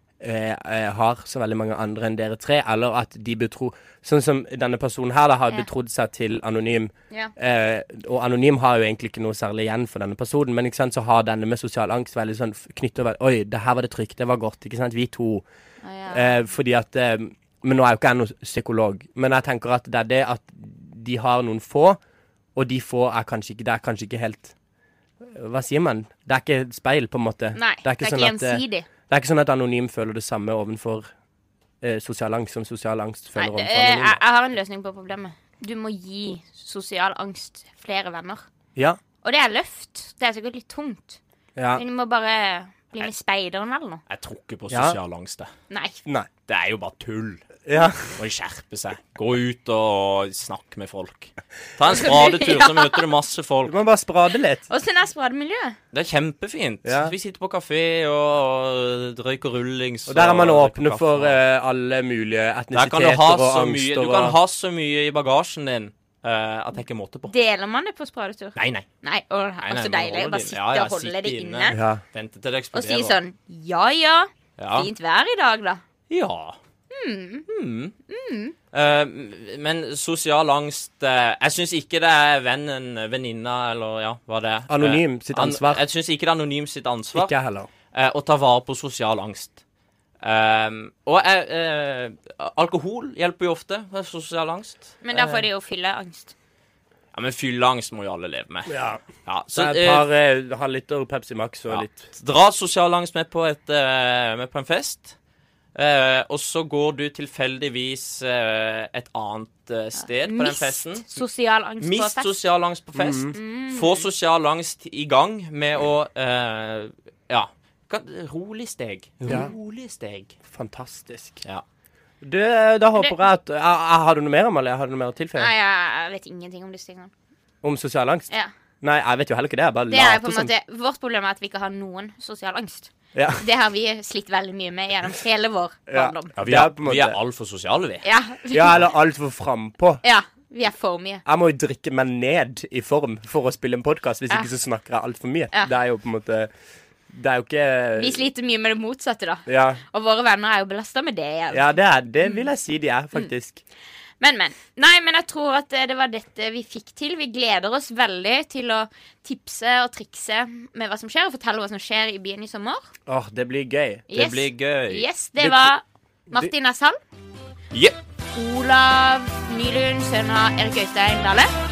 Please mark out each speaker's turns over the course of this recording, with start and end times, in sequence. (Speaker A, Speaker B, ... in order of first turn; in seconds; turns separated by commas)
Speaker A: 0.2-15.4, Speaker B: 15.8-16.3, Speaker A: 16.1-22.0, Speaker A: 22.5-24.5, Speaker A: 25.2-31.1, Speaker B: 27.5-28.9, Speaker A: 31.8-34.2, Speaker B: 33.4-38.5, Speaker B: 39.2-41.2, Speaker A: 41.5-41.8, Speaker B: 41.7-44.0, Speaker C: 44.1-45.5, Speaker A: 44.7-45.0, Speaker B: 45.7-46.0, Speaker C: 46.5-47.4, Speaker A: 47.6-48.2, Speaker C: 48.2-53.7, Speaker B: 51.9-53.0, Speaker A: 53.6-54.6, Speaker B: 54.7-55.8, Speaker C: 55.9-61.4, Speaker A: 56.8-57.1, Speaker A: 60.1-64.4, Speaker C: 62.7-67.3, Speaker B: 67.3-71.8, Speaker C: 68.5-68.8, Speaker C: 69.6-73.2, Speaker A: 71.7-72.0, Speaker B: 72.7-75.8, Speaker C: 74.6-74.9, Speaker C: 76.1-76.6, Speaker B: 76.9-77.5, Speaker C: 77.5-77.9, Speaker B: 78.1-78.5, Speaker C: 78.7-87.3, Speaker A: 84.7-85.8, Speaker A: 87.1-87.7, Speaker C: 87.9-89.6, Speaker C: 90.2-95.5, Speaker B: 95.0-96.3, Speaker C: 97.1-100.0, Speaker A: 98.7-102.1, Speaker C: 101.7-105.1, Speaker C: 105.7-111.1, Speaker B: 110.0-112.3, Speaker C: 111.8-120.4, Speaker A: 112.9-113.3, Speaker B: 113.3-114.1, Speaker A: 119.3-119.5, Speaker A: 120.5-121.4, Speaker A: 122.2-125.5, Speaker B: 125.4-127.1, Speaker A: 127.6-128.3, Speaker A: 128.8-130.5, Speaker B: 129.9-136.3, Speaker A: 133.1-133.4, Speaker A: 135.9-137.2, Speaker C: 136.4-138.0, Speaker B: 138.0-138.8, Speaker A: 138.5-140.0, Speaker B: 140.0-141.2, Speaker A: 141.2-146.5, Speaker A: 147.1-148.2, Speaker B: 147.9-151.6, Speaker A: 149.4-149.8, Speaker A: 151.5-153.6, Speaker B: 154.2-162.9, Speaker A: 163.1-164.1, Speaker B: 164.1-167.0, Speaker C: 164.1-165.1, Speaker A: 165.4-165.7, Speaker B: 168.3-171.5